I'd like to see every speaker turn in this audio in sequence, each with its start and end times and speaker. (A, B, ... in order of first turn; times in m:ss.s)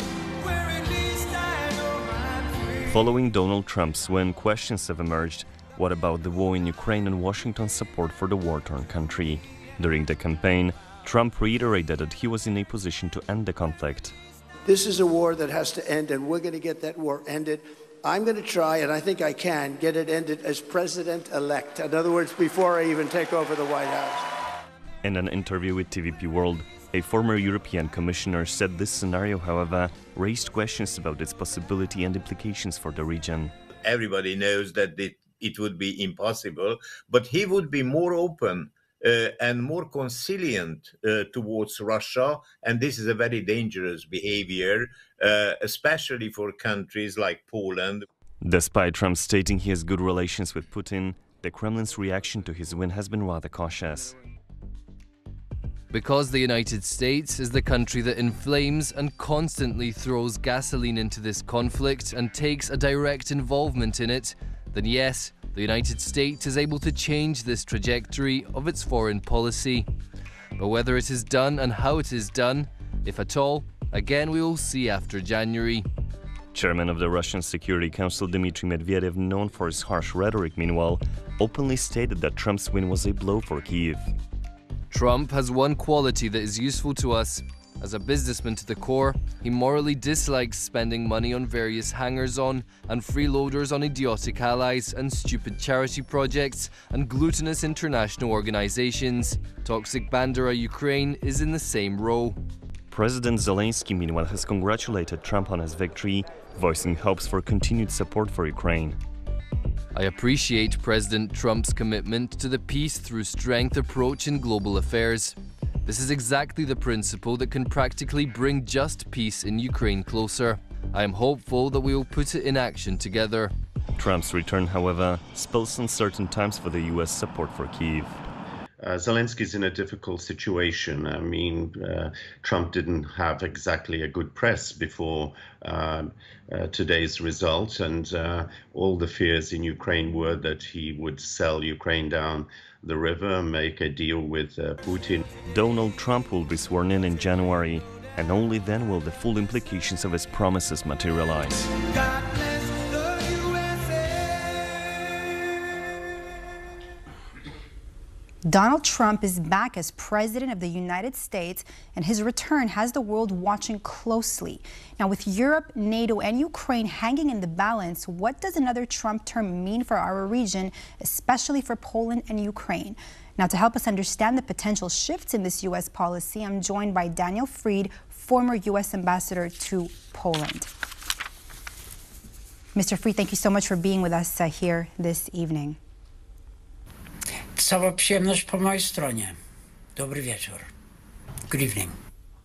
0:02.8-0:14.1 A
0:14.6-0:24.2 B
0:25.0-0:33.5 A
0:33.8-0:48.0 C
0:48.4-0:54.2 A
0:55.9-1:09.9 D
1:10.6-1:15.9 D
1:16.5-1:24.1 A
1:24.9-1:42.4 D
1:42.9-1:49.0 A
1:49.9-2:03.5 D
2:04.0-2:08.2 A
2:08.8-2:25.2 E
2:25.5-2:31.7 A
2:38.5-3:00.7 F
3:02.7-3:05.8 F
3:07.6-3:09.4 G
3:10.0-3:10.7 G
3:11.5-3:11.9 G